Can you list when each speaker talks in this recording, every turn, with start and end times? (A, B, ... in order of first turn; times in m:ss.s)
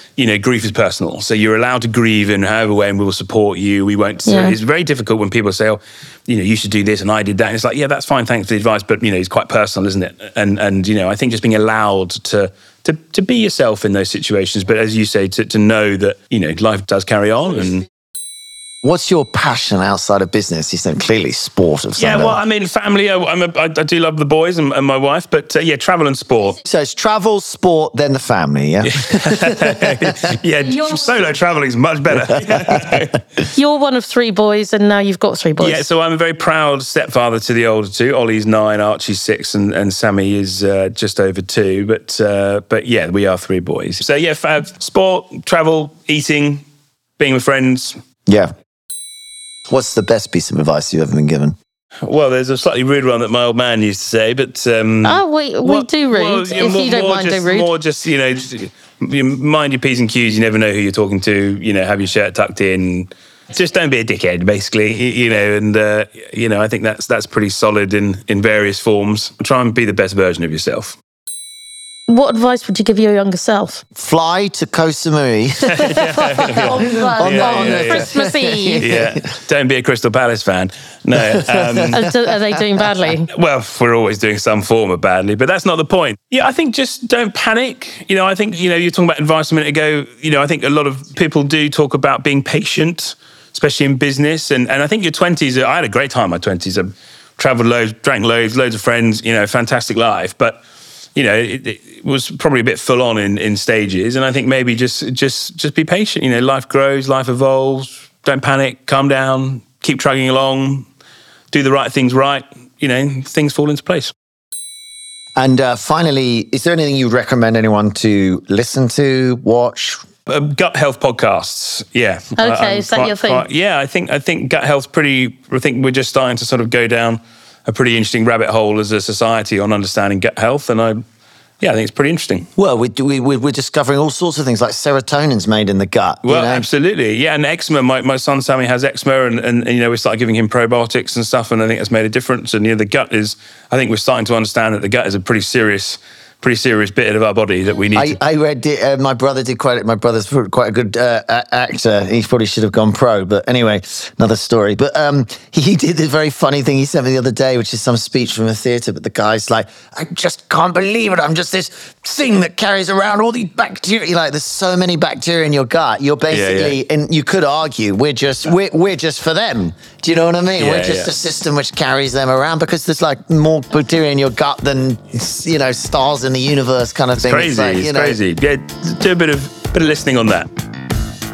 0:00.2-0:17.9 A
0:04.2-0:04.6 B
0:18.8-0:22.4 C
0:22.0-0:26.6 A
0:26.6-0:29.9 C
0:28.9-0:33.2 A
0:32.1-0:33.0 C
0:33.5-0:35.8 B
0:35.6-0:46.6 A
0:47.2-0:48.0 A
0:49.7-0:51.6 C
0:52.0-1:11.0 A
0:55.0-0:57.7 B
1:12.1-1:13.8 B
1:14.0-1:19.3 C
1:15.7-1:18.2 A
1:15.8-1:18.9 B
1:18.8-1:22.1 A
1:21.1-1:22.2 C
1:22.0-1:23.3 B
1:23.3-1:40.6 A
1:41.2-1:50.9 A
1:51.5-1:54.1 A
1:55.4-2:00.0 C
2:00.3-2:11.0 A
2:02.4-2:03.5 B
2:11.6-2:12.5 A
2:12.6-2:16.7 C
2:16.2-2:28.2 A
2:27.9-2:58.2 C
2:46.3-2:46.8 A
2:50.6-2:51.2 A
2:57.2-3:00.5 A